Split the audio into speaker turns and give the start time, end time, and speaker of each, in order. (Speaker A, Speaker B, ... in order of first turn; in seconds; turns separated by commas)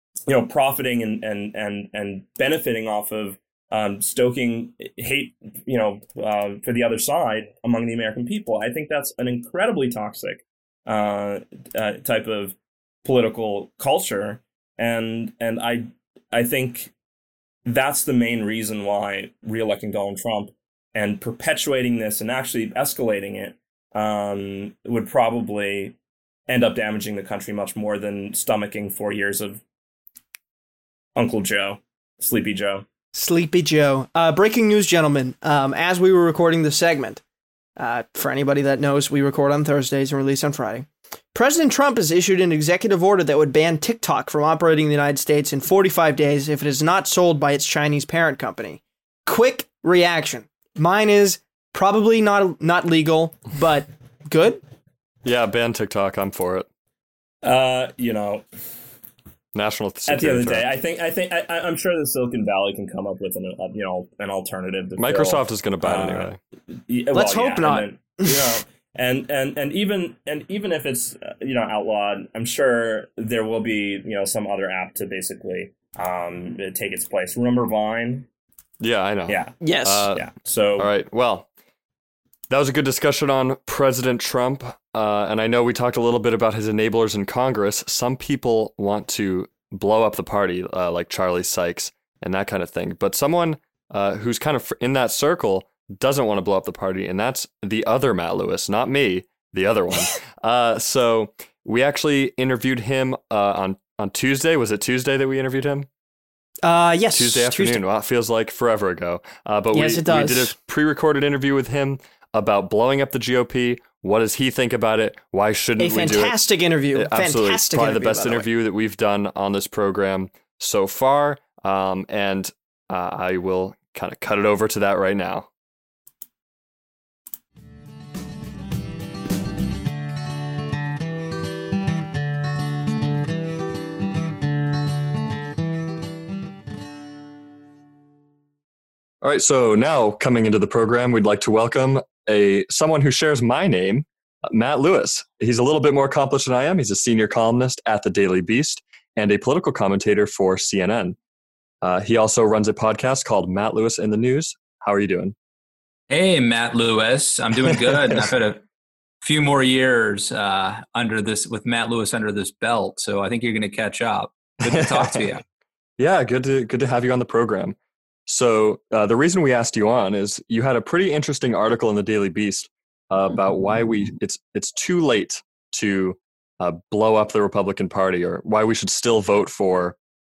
Speaker A: 0.3-16.9, Speaker A: 17.6-25.9, Speaker A: 26.5-29.6, Speaker A: 31.1-32.9, Speaker B: 33.1-37.2, Speaker B: 37.8-54.6, Speaker C: 55.2-56.7, Speaker A: 57.4-58.4, Speaker C: 59.5-60.6, Speaker A: 60.1-66.3, Speaker C: 65.0-66.4, Speaker A: 66.9-78.3, Speaker B: 67.1-68.6, Speaker C: 78.8-81.5, Speaker A: 79.3-79.6, Speaker B: 79.6-80.1, Speaker A: 80.1-80.9, Speaker C: 82.5-105.9, Speaker B: 106.6-107.8, Speaker C: 107.1-116.4, Speaker B: 109.7-110.5, Speaker B: 115.8-118.5, Speaker C: 116.9-125.5, Speaker C: 139.2-151.2, Speaker C: 151.8-155.3, Speaker D: 156.1-158.6, Speaker D: 159.2-165.4, Speaker C: 164.7-165.2, Speaker C: 166.0-167.8, Speaker C: 168.3-180.0